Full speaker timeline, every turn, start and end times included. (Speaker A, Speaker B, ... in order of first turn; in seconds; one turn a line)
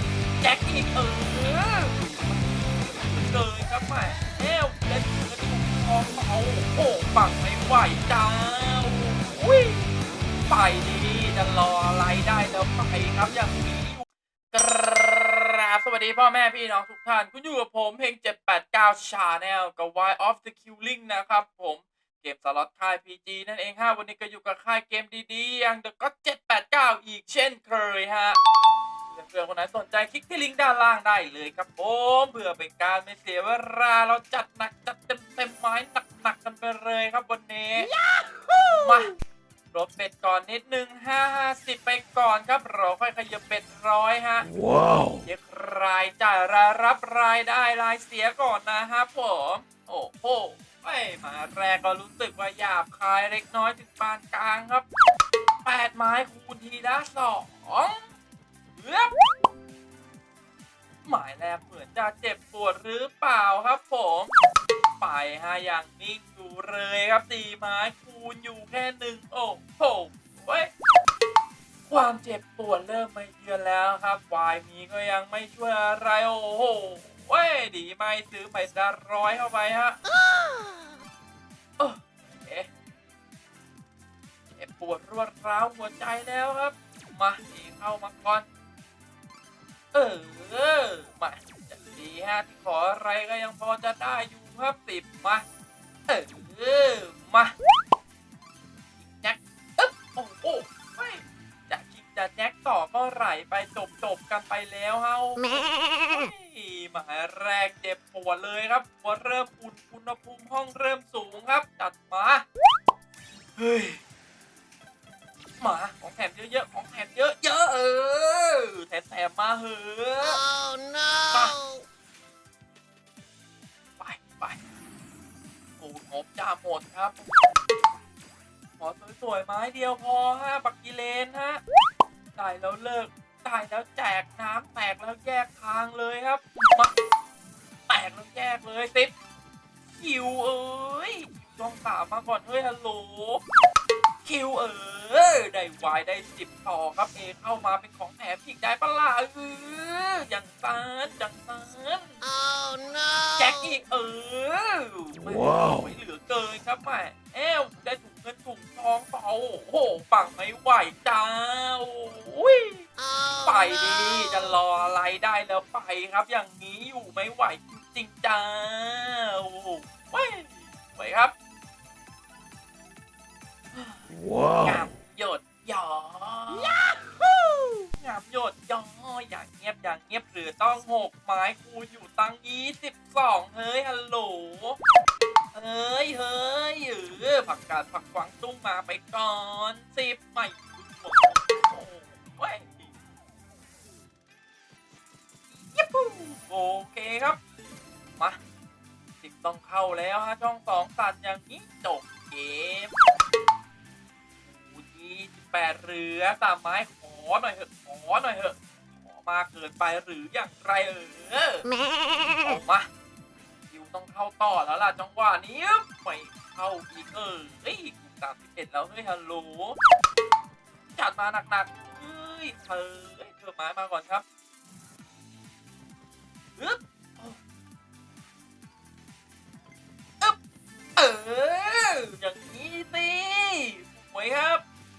Speaker A: 0.4-9.8
Speaker A: 10.5-28.4
Speaker A: 29.1-37.9
Speaker A: 38.7-39.1
Speaker A: 39.7-44.5
Speaker A: 45.2-54.9
Speaker A: 55.6-58.0
Speaker A: 58.8-59.1
Speaker A: 61.0-64.3
Speaker A: 65.0-70.7
Speaker A: 71.9-80.0
Speaker A: 81.8-82.7
Speaker A: 84.5-88.5
Speaker A: 89.9-95.5
Speaker A: 96.1-97.5
Speaker A: 99.0-105.5
Speaker A: 106.1-112.4
Speaker A: 113.6-114.0
Speaker A: 115.6-120.4
Speaker B: 120.5-121.6
Speaker A: 121.3-121.6
Speaker A: 124.0-124.6
Speaker A: 125.8-127.2
Speaker A: 128.8-131.6
Speaker A: 132.4-136.9
Speaker A: 137.9-139.1
Speaker A: 140.0-143.4
Speaker A: 144.2-152.2
Speaker B: 152.4-153.3
Speaker A: 153.4-162.9
Speaker B: 163.1-163.4
Speaker A: 163.4-171.3
Speaker A: 173.7-174.1
Speaker A: 174.6-176.7
Speaker B: 176.8-177.0
Speaker A: 178.0-184.8
Speaker A: 185.5-192.9
Speaker A: 195.5-197.4
Speaker A: 199.2-202.9
Speaker A: 204.5-211.7
Speaker A: 212.4-212.9
Speaker A: 213.7-219.8
Speaker A: 221.0-224.2
Speaker A: 226.6-227.4
Speaker A: 231.0-234.6